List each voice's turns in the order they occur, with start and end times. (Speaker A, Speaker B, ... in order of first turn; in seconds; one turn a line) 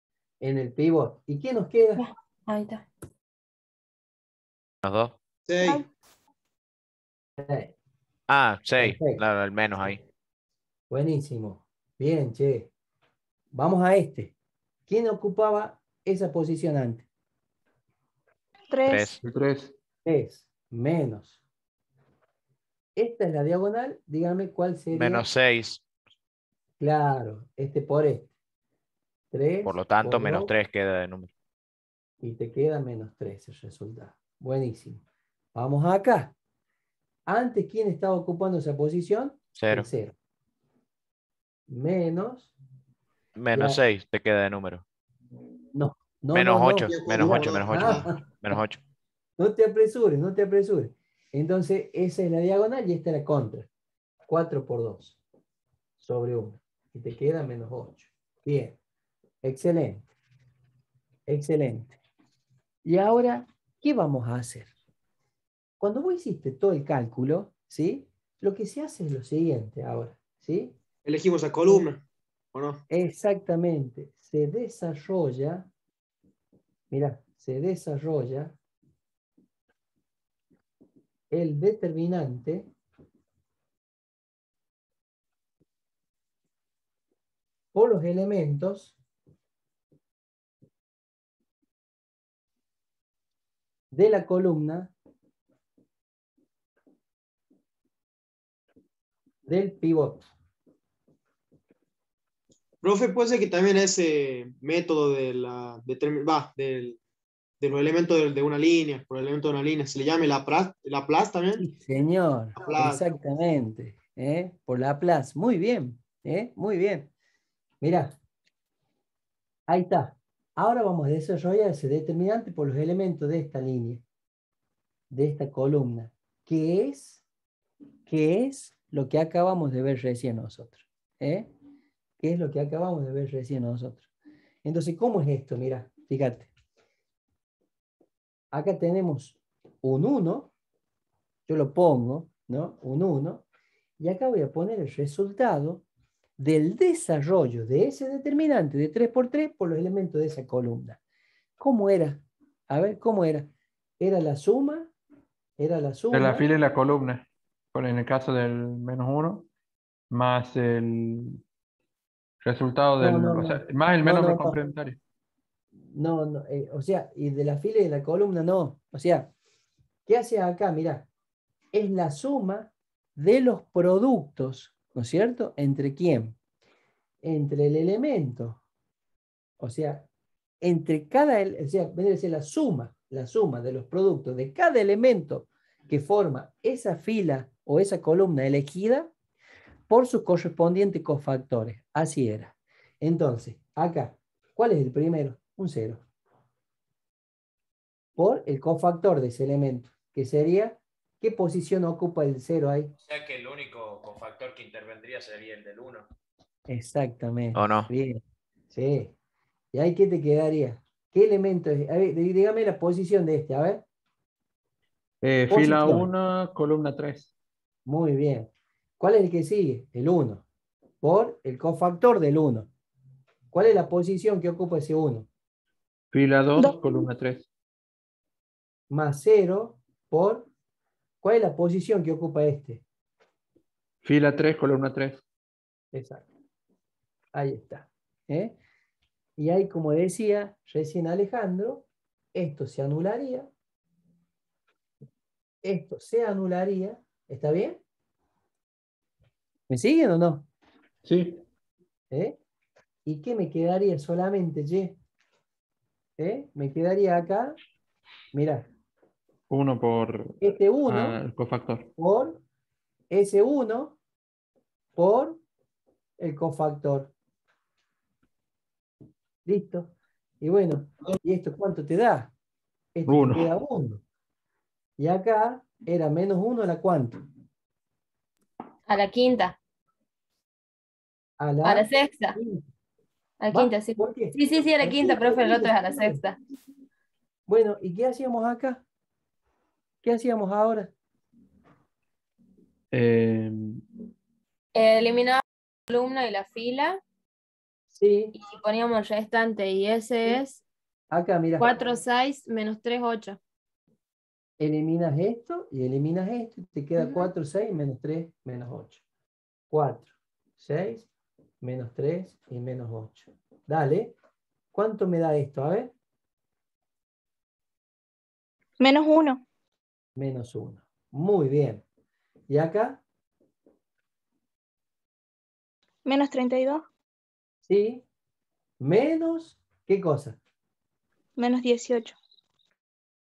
Speaker A: 0.4-2.0
Speaker B: 2.0-2.9
Speaker C: 4.8-5.1
Speaker D: 5.5-5.8
Speaker E: 5.6-5.9
Speaker A: 7.4-7.7
Speaker C: 8.3-10.0
Speaker A: 8.8-9.2
Speaker A: 10.9-12.7
Speaker A: 13.5-14.3
Speaker A: 14.9-17.1
Speaker E: 18.7-19.2
Speaker C: 18.9-19.2
Speaker F: 19.2-19.7
Speaker A: 20.0-21.4
Speaker A: 23.0-25.2
Speaker C: 24.9-25.8
Speaker A: 26.8-28.3
Speaker A: 29.3-30.5
Speaker C: 29.6-31.3
Speaker A: 32.2-35.0
Speaker A: 35.5-36.3
Speaker A: 37.3-40.1
Speaker C: 39.5-39.9
Speaker A: 41.7-42.5
Speaker C: 43.4-44.8
Speaker A: 43.5-43.8
Speaker A: 45.7-48.2
Speaker C: 46.3-48.8
Speaker D: 46.8-48.1
Speaker A: 49.4-53.7
Speaker A: 54.3-55.2
Speaker A: 56.0-58.8
Speaker A: 59.4-60.1
Speaker A: 61.3-62.0
Speaker A: 62.8-64.7
Speaker A: 65.8-70.7
Speaker D: 71.0-72.0
Speaker D: 72.5-72.8
Speaker A: 72.9-75.7
Speaker A: 76.9-78.5
Speaker A: 81.3-82.7
Speaker A: 87.7-89.0
Speaker A: 93.9-94.9
Speaker A: 99.5-100.3
Speaker D: 102.8-107.0
Speaker D: 107.6-111.6
Speaker A: 111.6-117.1
Speaker D: 112.6-113.0
Speaker A: 117.8-118.1
Speaker A: 119.7-124.0
Speaker A: 125.1-127.2
Speaker A: 128.1-131.5
Speaker A: 132.2-134.1
Speaker A: 134.6-136.5
Speaker A: 138.5-140.5
Speaker A: 141.5-143.4
Speaker A: 144.0-145.8
Speaker A: 146.4-151.0
Speaker A: 151.6-154.9
Speaker A: 155.6-156.4
Speaker F: 156.1-159.5
Speaker F: 160.1-161.4
Speaker F: 162.4-165.0
Speaker A: 163.0-164.6
Speaker A: 165.8-169.3
Speaker A: 170.1-171.1
Speaker A: 171.7-176.3
Speaker A: 177.2-178.6
Speaker A: 179.6-180.1
Speaker A: 180.6-189.1
Speaker A: 189.9-196.0
Speaker A: 198.2-202.9
Speaker C: 203.0-206.1
Speaker A: 206.7-209.1
Speaker C: 207.5-207.9
Speaker A: 209.7-213.8
Speaker F: 215.2-217.3
Speaker A: 215.5-216.1
Speaker A: 217.8-220.4
Speaker A: 221.0-222.7
Speaker A: 223.5-225.3
Speaker F: 226.1-227.5
Speaker E: 226.6-227.1
Speaker A: 228.9-230.5
Speaker A: 231.2-232.8
Speaker F: 234.0-235.2
Speaker A: 235.9-236.3
Speaker A: 237.3-238.6
Speaker A: 239.4-243.5
Speaker A: 245.6-247.8
Speaker A: 249.7-250.4
Speaker F: 251.0-251.4
Speaker A: 252.1-252.4
Speaker A: 253.0-254.9
Speaker A: 256.2-257.6
Speaker A: 258.3-258.7
Speaker F: 259.5-261.9
Speaker A: 260.4-261.2
Speaker A: 262.0-262.4
Speaker A: 263.1-264.0
Speaker A: 264.9-265.4
Speaker A: 266.2-267.1
Speaker A: 269.4-272.3
Speaker A: 272.9-274.0
Speaker F: 273.1-273.5
Speaker A: 275.0-277.2
Speaker B: 278.9-279.6
Speaker A: 281.4-282.6
Speaker B: 281.6-282.4
Speaker B: 283.4-286.4
Speaker A: 283.5-286.2
Speaker A: 287.5-288.8
Speaker A: 290.0-290.9
Speaker F: 292.9-293.8
Speaker B: 294.7-297.0
Speaker A: 297.9-298.3
Speaker B: 298.3-300.6
Speaker A: 301.1-301.7
Speaker B: 301.6-303.4
Speaker A: 304.6-309.0
Speaker B: 307.0-307.3
Speaker A: 309.7-311.1
Speaker A: 311.6-314.1
Speaker A: 314.7-315.9
Speaker E: 318.8-319.4
Speaker A: 320.1-321.8
Speaker A: 322.5-323.0
Speaker E: 326.0-326.9
Speaker A: 327.6-328.0
Speaker A: 328.8-330.4
Speaker E: 331.4-332.2